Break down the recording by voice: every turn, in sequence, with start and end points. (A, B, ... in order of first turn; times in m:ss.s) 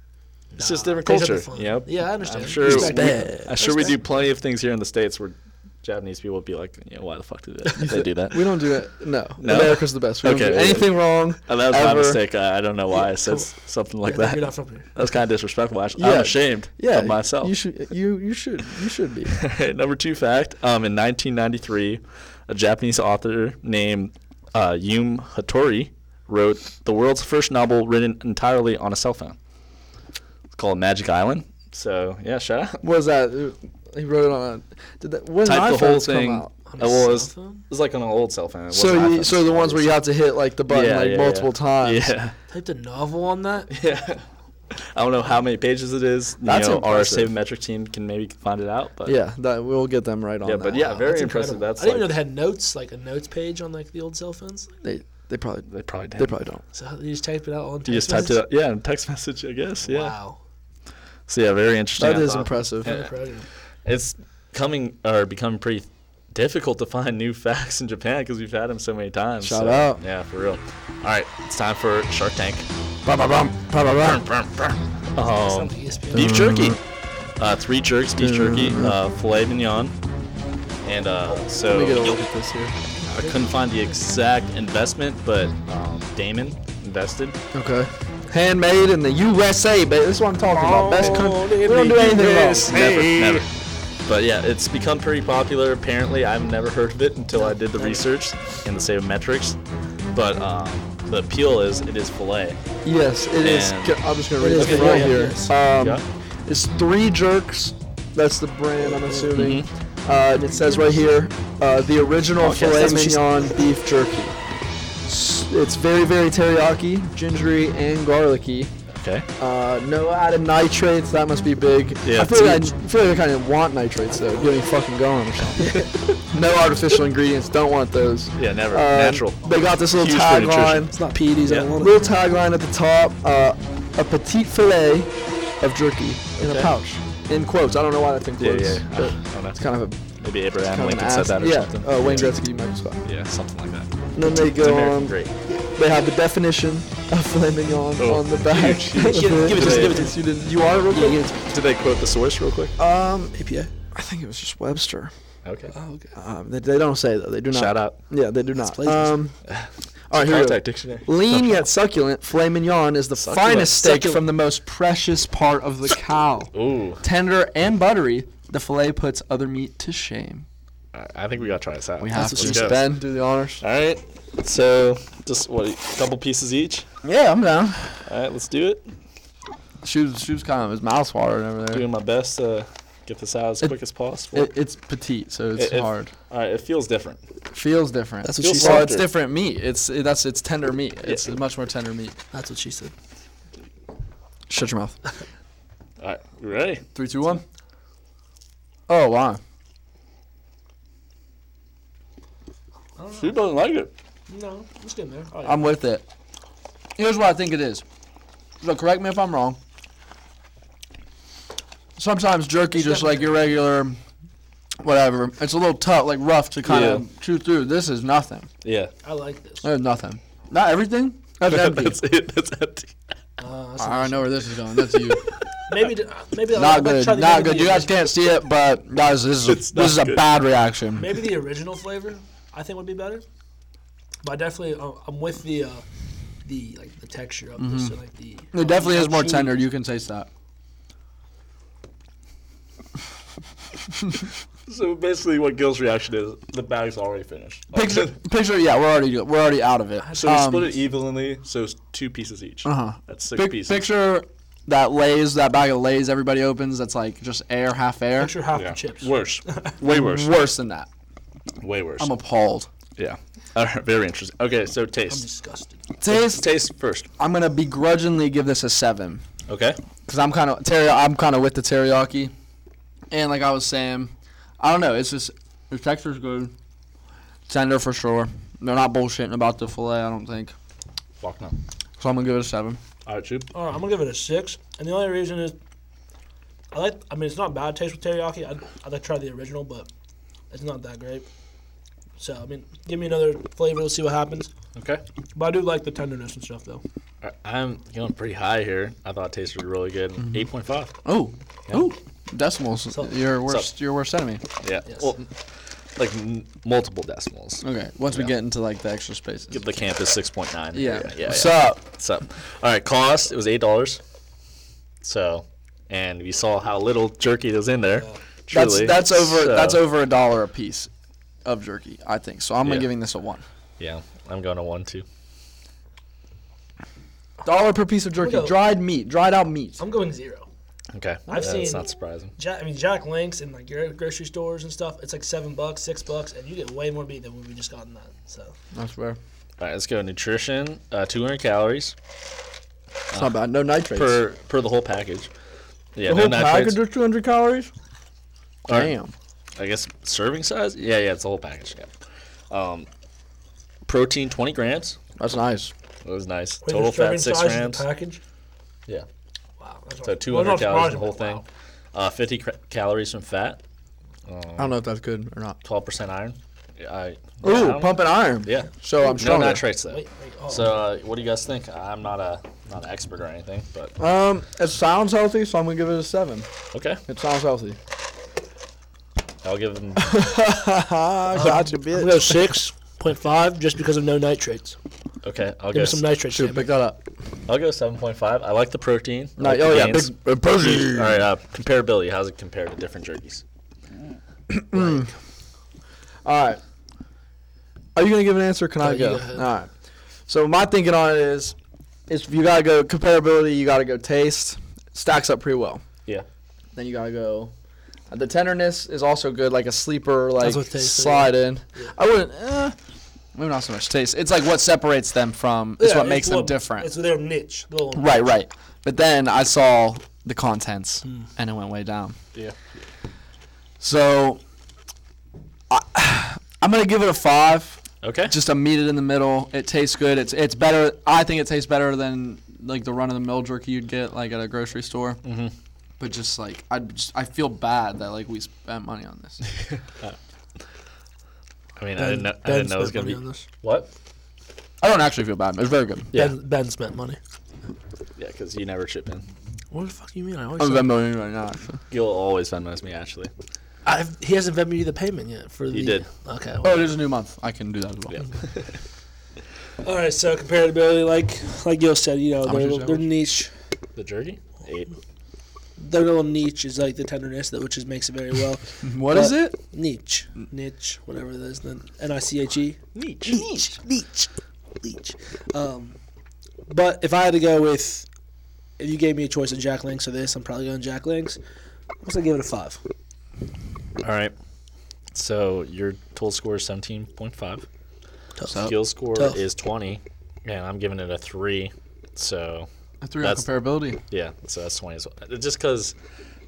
0:00.5-0:03.9 A
0:00.6-0:08.6 B
0:02.6-0:03.9 C
0:07.8-0:12.2 C
0:09.4-0:11.0 B
0:11.5-0:17.5 B
0:12.9-0:13.5 A
0:14.0-0:14.9 A
0:16.0-0:19.4 C
0:19.3-0:29.4 B
0:30.5-0:32.8 B
0:32.8-0:36.5 C
0:35.4-0:39.9 B
0:36.7-0:37.6 A
0:38.7-0:42.1 C
0:40.7-0:42.3 B
0:42.5-0:43.7 A
0:43.7-0:44.2 B
0:44.8-0:49.2 B
0:46.4-0:47.3 C
0:49.0-0:51.0 C
0:50.4-0:52.1 B
0:51.0-0:54.7 A
0:54.8-0:56.6 C
0:55.7-0:56.3 B
0:56.7-0:58.4 A
0:57.8-1:00.1 B
0:59.8-1:00.4 A
1:01.3-1:03.1 B
1:02.0-1:02.9 C
1:02.8-1:03.4 A
1:03.8-1:12.7 B
1:09.4-1:10.0 C
1:13.0-1:14.2 C
1:13.8-1:16.8 B
1:15.2-1:16.4 A
1:16.1-1:16.8 C
1:17.4-1:19.9 B
1:18.2-1:19.0 C
1:20.8-1:22.2 B
1:21.7-1:22.7 C
1:23.0-1:23.4 A
1:23.1-1:27.4 B
1:27.5-1:32.9 C
1:30.5-1:33.4 A
1:31.8-1:33.5 B
1:34.0-1:39.6 B
1:37.3-1:38.0 A
1:40.1-1:42.6 B
1:42.8-1:54.4 C
1:43.4-1:44.0 B
1:44.4-1:45.5 A
1:44.6-1:46.0 B
1:48.9-1:49.3 A
1:49.3-1:49.7 B
1:52.4-1:53.2 B
1:55.0-1:58.7 C
1:59.0-1:59.3 B
1:59.4-2:10.9 C
2:02.0-2:02.7 B
2:04.1-2:04.5 A
2:05.6-2:05.9 A
2:08.4-2:10.9 B
2:10.9-2:12.0 A
2:11.7-2:23.0 C
2:16.4-2:16.8 B
2:18.4-2:19.7 B
2:20.2-2:22.3 B
2:23.0-2:24.0 B
2:24.2-2:31.4 C
2:24.5-2:25.3 B
2:28.0-2:30.1 B
2:29.0-2:30.2 A
2:30.9-2:31.2 A
2:31.4-2:32.7 B
2:32.8-2:33.4 C
2:33.4-2:33.7 A
2:33.9-2:35.1 C
2:35.4-2:35.7 B
2:35.7-2:36.1 A
2:36.1-2:39.3 C
2:37.5-2:38.0 B
2:38.6-2:39.2 A
2:39.5-2:41.7 B
2:40.1-2:50.4 C
2:43.2-2:44.0 B
2:43.8-2:44.2 A
2:46.5-2:47.0 B
2:50.9-2:52.8 B
2:52.0-2:53.6 C
2:52.1-2:52.7 A
2:53.6-2:56.8 B
2:57.0-2:58.0 C
2:58.0-2:58.9 B
2:59.8-3:01.8 C
3:01.7-3:04.5 B
3:04.3-3:06.1 C
3:05.6-3:07.2 B
3:07.5-3:12.2 C
3:08.2-3:08.9 A
3:08.4-3:09.0 B
3:11.0-3:11.3 B
3:12.3-3:12.9 A
3:14.5-3:15.0 C
3:16.0-3:16.8 B
3:16.9-3:17.4 C
3:18.9-3:19.4 C
3:23.0-3:23.4 A
3:23.2-3:23.9 B
3:24.3-3:25.6 A
3:25.4-3:26.0 C
3:27.0-3:27.8 C
3:28.6-3:29.6 C
3:32.0-3:34.0 C
3:32.7-3:33.4 A
3:34.8-3:38.5 C
3:36.6-3:37.0 B
3:38.6-3:38.9 B
3:39.0-3:39.7 A
3:39.6-3:42.0 C
3:41.5-3:43.0 B
3:43.4-3:44.3 A
3:43.8-3:45.2 C
3:44.9-3:45.2 B
3:45.7-3:47.9 A
3:46.5-3:51.1 C
3:49.5-3:50.3 B
3:51.0-3:53.2 A
3:54.2-3:55.8 A
3:56.4-3:59.6 A
3:57.6-3:57.9 C
3:58.5-4:00.3 C
4:04.7-4:08.1 B
4:07.7-4:10.7 C
4:10.0-4:10.5 A
4:10.1-4:13.9 B
4:12.6-4:18.3 C
4:18.2-4:19.8 A
4:18.5-4:20.3 B
4:19.8-4:20.9 C
4:21.6-4:22.1 B
4:22.0-4:22.7 C
4:23.0-4:25.2 B
4:25.1-4:25.8 A
4:26.0-4:26.4 C
4:26.0-4:27.1 B
4:27.2-4:29.2 C
4:29.5-4:29.8 B
4:30.1-4:32.3 C
4:33.1-4:36.5 C
4:37.5-4:40.5 C
4:41.2-4:41.6 B
4:42.0-4:42.8 C
4:43.0-4:43.5 B
4:43.5-4:45.6 A
4:46.7-4:49.9 A
4:50.5-4:51.3 A
4:52.2-4:54.5 A
4:54.7-4:55.0 B
4:55.3-4:56.8 A
4:57.2-5:00.9 B
5:01.0-5:04.4 C
5:04.6-5:05.3 B
5:06.0-5:08.3 B
5:07.6-5:09.6 C
5:09.5-5:14.0 B
5:10.7-5:11.8 C
5:15.0-5:19.8 B
5:18.5-5:20.9 C
5:21.4-5:23.4 C
5:22.6-5:22.9 B
5:23.8-5:25.0 B
5:27.4-5:29.8 C
5:28.2-5:28.6 A
5:29.8-5:30.5 A
5:30.9-5:32.3 B
5:31.3-5:38.5 A
5:38.7-5:39.2 C
5:39.6-5:41.9 B
5:43.1-5:44.2 C
5:43.9-5:45.3 B
5:45.9-5:46.8 B
5:46.0-5:47.7 C
5:48.6-5:49.1 C
5:48.7-5:48.9 B
5:49.6-5:51.9 B
5:52.5-5:52.9 B
5:53.8-5:55.0 B
5:55.2-5:55.7 C
5:56.0-5:57.8 B
5:56.6-5:58.2 A
5:59.6-6:01.4 A
6:00.0-6:03.6 B
6:04.2-6:04.7 B
6:04.6-6:05.6 C
6:05.6-6:14.0 B
6:07.4-6:09.7 C
6:09.9-6:10.8 A
6:14.0-6:16.5 C
6:16.7-6:17.0 B
6:17.0-6:17.8 C
6:19.4-6:20.2 B
6:20.0-6:22.5 C
6:21.3-6:24.8 A
6:25.2-6:26.0 B
6:25.7-6:26.7 A
6:26.3-6:27.0 C
6:27.5-6:33.4 B
6:29.4-6:31.2 C
6:34.5-6:35.1 C
6:34.7-6:35.1 A
6:36.2-6:36.6 C
6:37.9-6:39.7 C
6:38.8-6:39.4 A
6:40.3-6:41.5 C
6:42.1-6:45.8 C
6:46.7-6:47.5 C
6:48.1-6:52.7 C
6:50.4-6:51.9 A
6:53.3-6:56.9 C
6:55.8-6:58.2 A
6:57.9-7:02.2 C
7:03.8-7:04.4 C
7:05.7-7:15.2 C
7:08.0-7:08.3 B
7:15.2-7:15.5 B
7:16.0-7:19.4 C
7:21.8-7:23.9 B
7:22.0-7:23.4 A
7:24.8-7:26.1 C
7:26.1-7:27.2 A
7:28.2-7:29.2 B
7:29.7-7:30.9 A
7:30.6-7:31.8 C
7:31.9-7:33.3 B
7:33.8-7:36.9 A
7:35.7-7:36.1 B
7:36.6-7:38.2 C
7:38.1-7:38.8 B
7:39.8-7:43.5 A
7:42.4-7:43.0 C
7:44.0-7:44.9 B
7:45.8-7:54.3 A
7:48.8-7:49.6 C
7:52.9-7:53.5 B
7:54.8-7:56.0 A
7:56.7-7:58.1 A
7:58.8-8:01.4 A
8:02.0-8:02.8 A
8:04.0-8:04.3 B
8:05.1-8:07.6 B
8:08.4-8:09.4 A
8:08.6-8:12.7 B
8:13.0-8:14.0 C
8:13.2-8:13.5 B
8:14.1-8:15.9 B